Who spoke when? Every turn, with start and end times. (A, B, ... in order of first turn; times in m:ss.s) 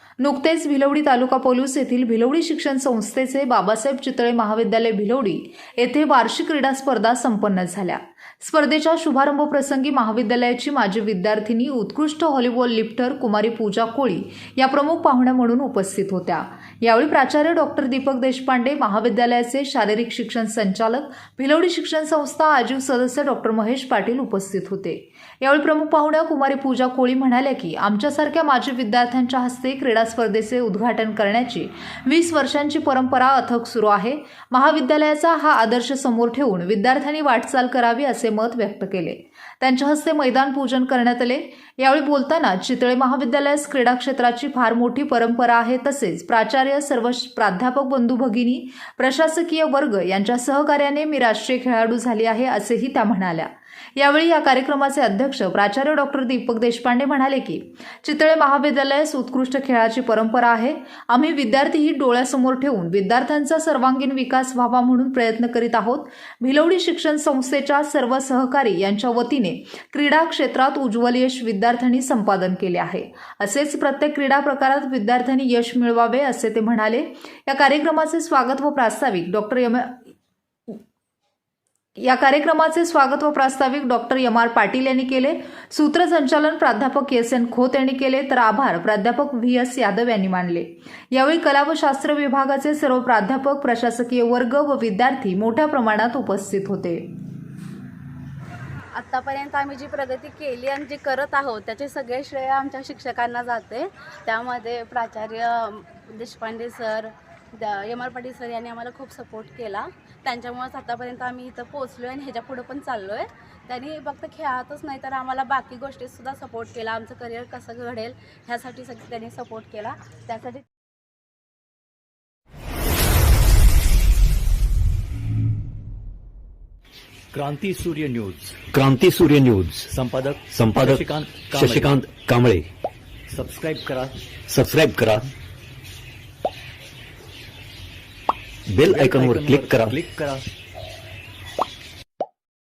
0:00.2-1:20.1 A
1:22.0-1:37.1 A
1:38.9-2:00.6 B
2:07.3-2:08.6 C
2:08.7-2:09.9 D
2:09.9-2:12.0 C
2:10.5-2:12.7 D
2:13.3-2:14.2 C
2:14.5-2:15.3 D
2:18.7-2:20.0 D
2:18.8-2:20.5 C